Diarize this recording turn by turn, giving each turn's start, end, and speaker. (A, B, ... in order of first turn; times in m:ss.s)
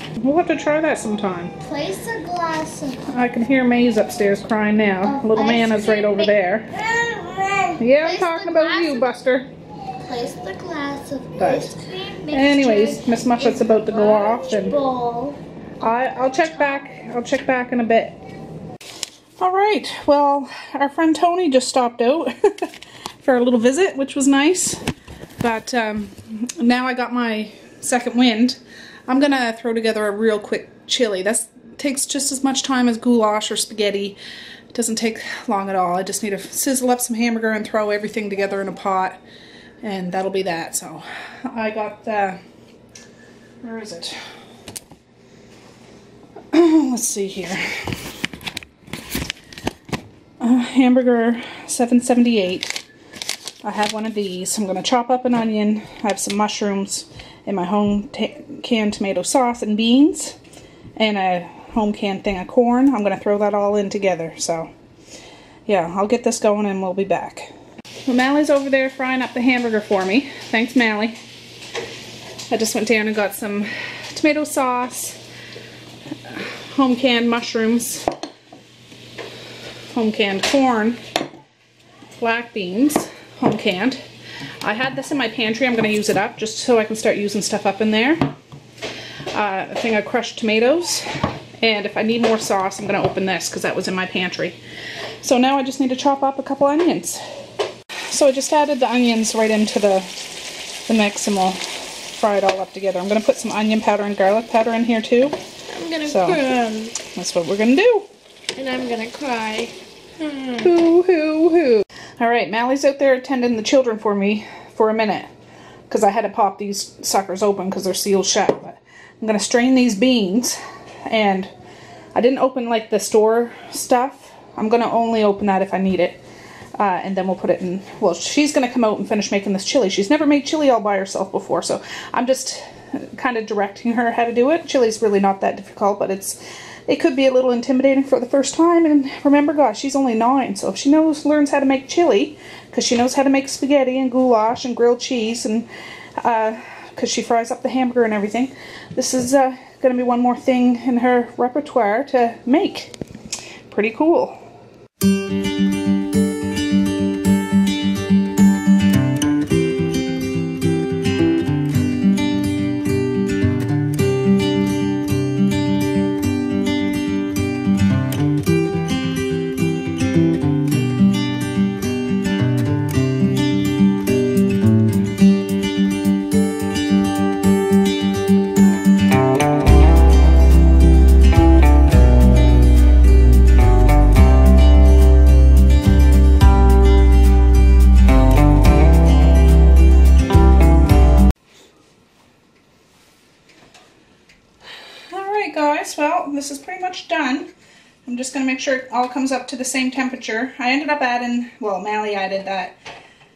0:00.2-0:01.5 A
0:01.6-0:03.0 B
0:03.1-0:06.7 A
0:05.0-0:09.2 B
0:07.8-0:09.5 A
0:10.0-0:16.9 B
0:11.4-0:11.8 A
0:12.3-0:14.8 A
0:15.8-0:18.2 A
0:19.4-0:24.8 A
0:25.4-0:34.2 A
0:34.7-0:39.2 A
0:39.8-0:42.4 A
0:43.6-0:44.2 A
0:46.5-0:48.0 A
0:50.4-0:52.8 A
0:53.6-1:00.4 A
1:01.0-1:04.7 A
1:05.7-1:07.5 A
1:08.1-1:11.2 A
1:12.5-1:15.2 A
1:16.3-1:18.1 A
1:19.9-1:21.0 A
1:22.2-1:24.0 A
1:24.6-1:28.3 A
1:29.3-1:31.1 A
1:31.6-1:34.6 A
1:35.2-1:37.2 A
1:38.1-1:45.4 A
1:45.7-1:47.0 B
1:46.0-1:46.4 A
1:47.0-1:48.1 A
1:48.6-1:50.8 B
1:50.6-1:55.3 A
1:55.9-2:01.5 A
2:02.1-2:06.2 A
2:06.8-2:25.7 A
2:26.2-2:33.0 A
2:33.7-2:34.4 A
3:15.1-3:17.5 A
3:18.0-3:22.8 A